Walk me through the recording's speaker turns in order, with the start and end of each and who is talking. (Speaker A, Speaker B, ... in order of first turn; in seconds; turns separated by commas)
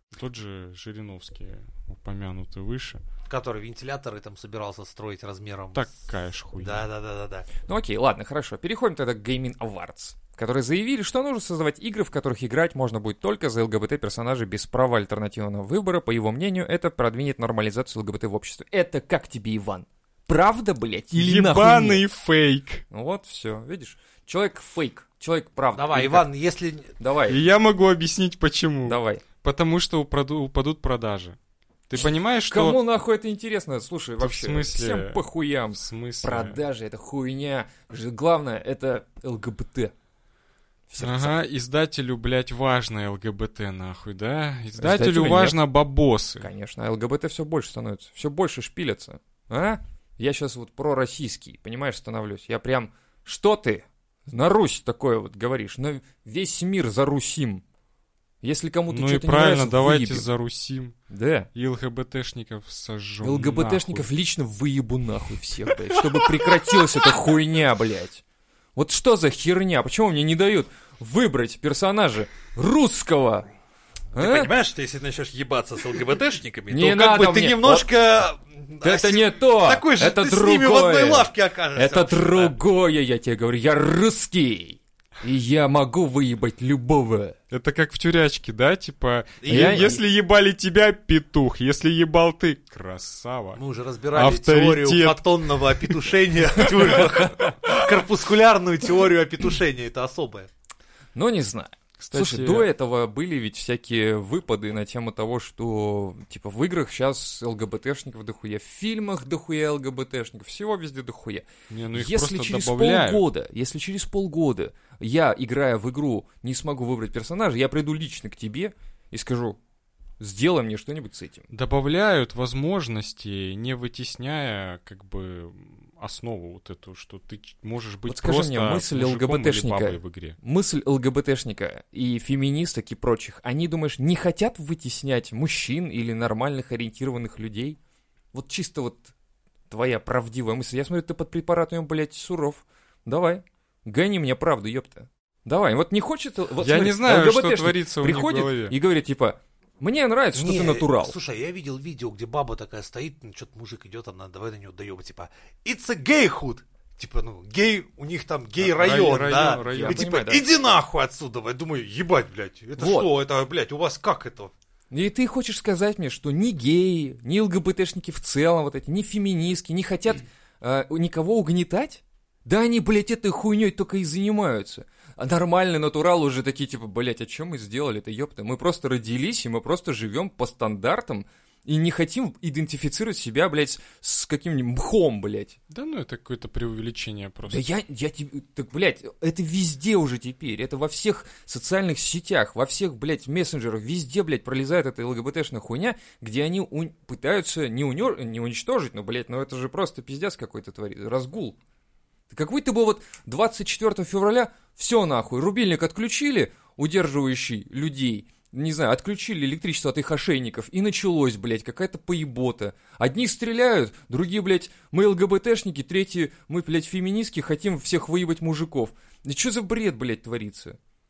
Speaker A: 0.1-3.0, Speaker B: 3.3-5.9, Speaker A: 5.7-6.8, Speaker B: 6.6-7.5, Speaker C: 7.6-22.0, Speaker A: 21.1-22.8, Speaker C: 22.9-26.2, Speaker B: 25.7-26.9, Speaker C: 27.0-27.4, Speaker A: 27.3-31.4, Speaker C: 28.9-29.2, Speaker A: 31.9-32.8, Speaker C: 32.0-39.9, Speaker A: 34.2-35.2, Speaker A: 35.8-36.6, Speaker C: 40.9-41.3, Speaker A: 41.0-46.5, Speaker C: 44.8-45.6, Speaker C: 46.4-57.6, Speaker C: 58.4-60.3, Speaker A: 58.9-60.9, Speaker C: 61.1-61.5, Speaker A: 61.5-64.1, Speaker C: 63.2-68.2, Speaker C: 68.7-73.5, Speaker C: 74.1-74.5, Speaker B: 74.1-82.5, Speaker C: 76.7-77.9, Speaker C: 78.8-87.3, Speaker A: 87.5-93.6, Speaker B: 89.4-89.9, Speaker C: 89.5-90.0, Speaker B: 93.6-100.5, Speaker A: 94.1-96.0, Speaker A: 96.7-97.8, Speaker C: 101.1-119.6, Speaker A: 102.0-102.7, Speaker A: 111.7-113.2, Speaker C: 120.2-121.5, Speaker A: 121.5-130.4, Speaker C: 128.1-137.8, Speaker C: 138.3-139.1, Speaker C: 139.7-151.2, Speaker A: 146.6-148.7, Speaker B: 150.3-164.5, Speaker A: 158.6-160.1, Speaker C: 159.7-160.5, Speaker C: 162.8-163.1, Speaker C: 164.9-185.6, Speaker A: 185.7-187.6, Speaker C: 187.5-201.6, Speaker C: 202.3-220.8